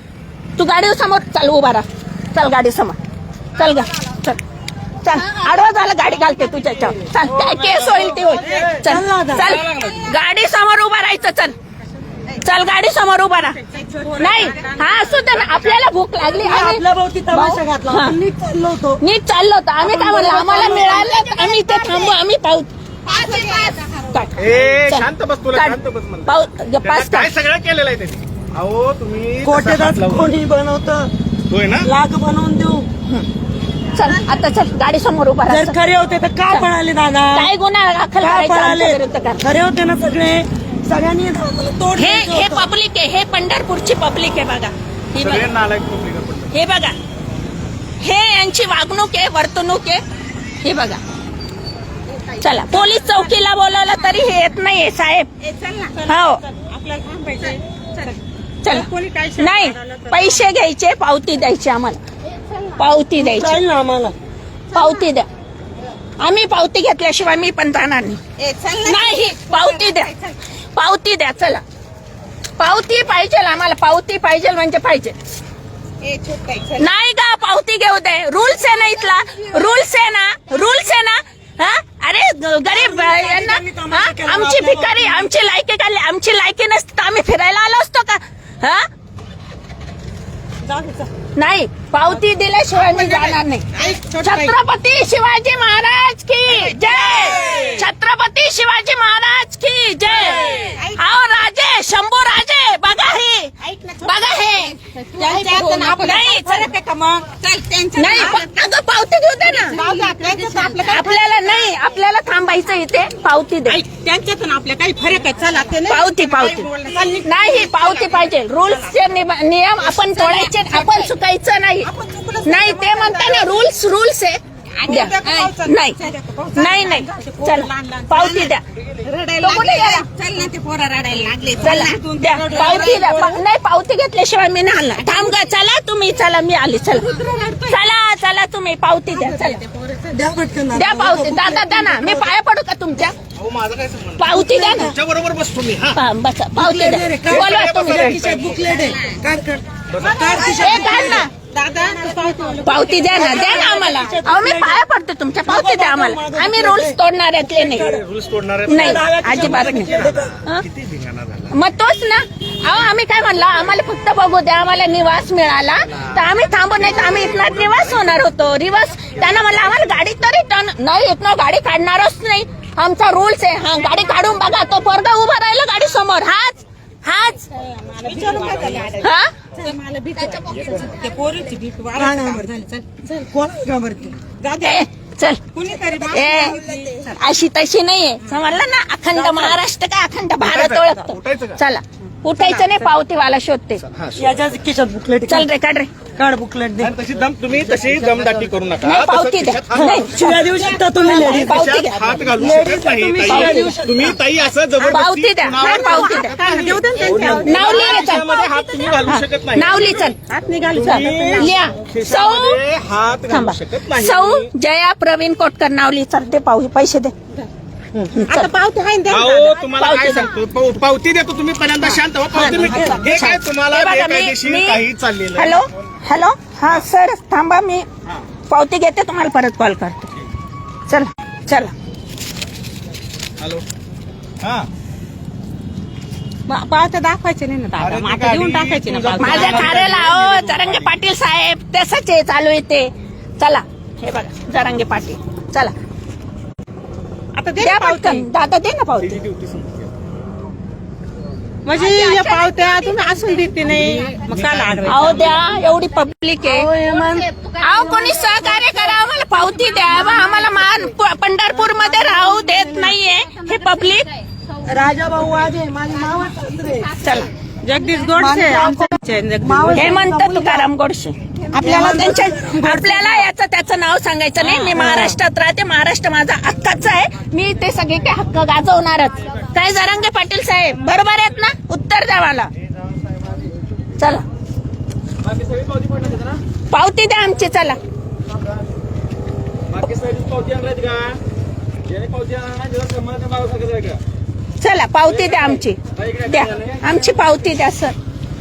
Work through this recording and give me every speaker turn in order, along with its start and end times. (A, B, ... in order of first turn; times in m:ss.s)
0:00.6-0:03.0 A
0:03.6-0:04.4 A
0:05.0-0:11.5 A
0:08.7-0:09.6 B
0:12.4-0:13.6 A
0:13.6-0:15.1 C
0:14.2-0:18.2 A
0:15.3-0:15.8 D
0:16.4-0:19.0 B
0:19.0-0:24.3 A
0:19.8-0:21.0 B
0:20.7-0:22.1 C
0:23.0-0:24.5 C
0:24.4-0:30.3 D
0:24.8-0:27.3 A
0:29.4-0:31.1 B
0:31.5-0:31.9 D
0:31.8-0:32.9 B
0:33.9-0:35.8 A
0:35.5-0:37.5 B
0:37.3-0:39.4 A
0:38.2-0:42.7 B
0:41.9-0:45.4 A
0:45.2-0:46.5 D
0:46.5-0:47.0 A
0:48.0-0:50.0 A
0:50.6-0:51.0 A
0:52.2-0:53.3 C
0:52.4-0:55.3 A
0:55.4-1:00.4 C
0:56.0-0:56.4 A
0:58.6-1:02.0 A
1:02.7-1:03.6 A
1:03.1-1:04.2 B
1:04.7-1:05.3 A
1:06.2-1:08.2 A
1:08.4-1:10.4 C
1:08.8-1:10.2 A
1:10.7-1:11.6 A
1:12.6-1:15.1 A
1:16.0-1:16.8 C
1:16.8-1:28.8 A
1:22.6-1:25.3 B
1:30.6-1:31.1 B
1:31.4-1:33.7 A
1:32.8-1:34.5 C
1:34.2-1:43.5 A
1:36.6-1:37.8 C
1:40.2-1:41.0 C
1:43.6-1:48.6 C
1:44.0-1:44.8 A
1:45.4-1:46.7 A
1:47.9-1:49.8 A
1:49.7-1:51.4 C
1:50.9-1:53.8 A
1:53.7-1:58.3 C
1:55.9-2:01.9 A
1:59.9-2:01.1 C
2:01.8-2:03.5 C
2:02.4-2:06.0 A
2:04.8-2:13.4 C
2:06.5-2:08.6 A
2:09.4-2:10.0 A
2:11.6-2:19.6 A
2:15.0-2:15.4 C
2:17.0-2:17.8 C
2:19.1-2:20.2 C
2:20.1-2:22.3 B
2:20.7-2:23.1 A
2:23.3-2:26.0 D
2:24.2-2:24.9 A
2:24.3-2:24.9 B
2:25.9-2:28.2 A
2:26.5-2:34.8 B
2:27.2-2:28.6 D
2:28.6-2:29.2 C
2:29.9-2:30.4 D
2:30.0-2:33.9 C
2:30.5-2:31.3 A
2:32.6-2:37.8 A
2:35.4-2:37.0 B
2:37.5-2:38.0 B
2:37.7-2:41.6 D
2:38.7-2:40.3 B
2:38.7-2:40.6 A
2:41.5-2:57.4 A
2:46.8-2:48.2 D
2:49.1-2:49.9 D
2:57.5-3:03.1 C
2:58.1-2:58.5 B
2:59.0-2:59.3 A
3:02.0-3:02.5 B
3:03.0-3:04.3 B
3:04.3-3:04.8 C
3:04.6-3:05.4 A
3:05.5-3:07.2 C
3:06.1-3:06.6 A
3:06.2-3:06.8 B
3:07.1-3:13.8 A
3:09.1-3:09.6 C
3:10.4-3:11.6 D
3:12.4-3:12.9 C
3:13.8-3:14.2 D
3:14.2-3:15.5 B
3:15.3-3:15.9 A
3:16.2-3:16.9 B
3:16.8-3:20.4 D
3:18.8-3:20.4 A
3:19.7-3:21.6 B
3:21.0-3:22.1 A
3:21.0-3:30.1 D
3:22.3-3:24.1 B
3:23.2-3:23.8 A
3:24.8-3:26.4 A
3:25.6-3:29.0 C
3:27.4-3:28.3 A
3:29.1-3:30.2 A
3:30.3-3:31.6 C
3:30.6-3:34.5 D
3:30.8-3:32.6 A
3:33.3-3:37.1 A
3:38.1-3:38.5 A
3:38.2-3:39.6 C
3:39.1-3:45.6 D
3:39.8-3:40.3 A
3:42.3-3:43.0 C
3:42.4-3:44.8 A
3:45.4-3:47.8 A
3:48.5-3:50.1 A
3:50.9-3:51.7 A
3:53.4-3:53.6 D
3:54.4-3:54.7 D
3:56.5-3:59.7 C
3:57.8-4:00.9 D
3:59.2-4:05.7 A
4:07.3-4:08.2 C
4:07.6-4:09.2 A
4:09.0-4:09.9 D
4:11.6-4:15.4 C
4:14.1-4:14.9 D
4:14.8-4:16.7 A
4:16.4-4:17.3 B
4:17.0-4:18.7 C
4:17.6-4:24.1 A
4:19.6-4:20.8 C
4:21.7-4:22.8 B
4:24.5-4:25.4 C
4:24.6-4:27.0 B
4:26.9-4:29.9 C
4:27.0-4:27.3 A
4:28.1-4:30.7 B
4:29.8-4:42.5 A
4:31.5-4:32.0 C
4:31.6-4:33.2 B
4:34.7-4:35.2 B
4:44.0-4:44.2 A
4:45.2-4:46.4 D
4:46.7-4:47.8 A
4:49.7-4:51.2 D
4:51.9-4:54.0 D
4:54.6-4:57.9 A
4:56.0-4:56.6 D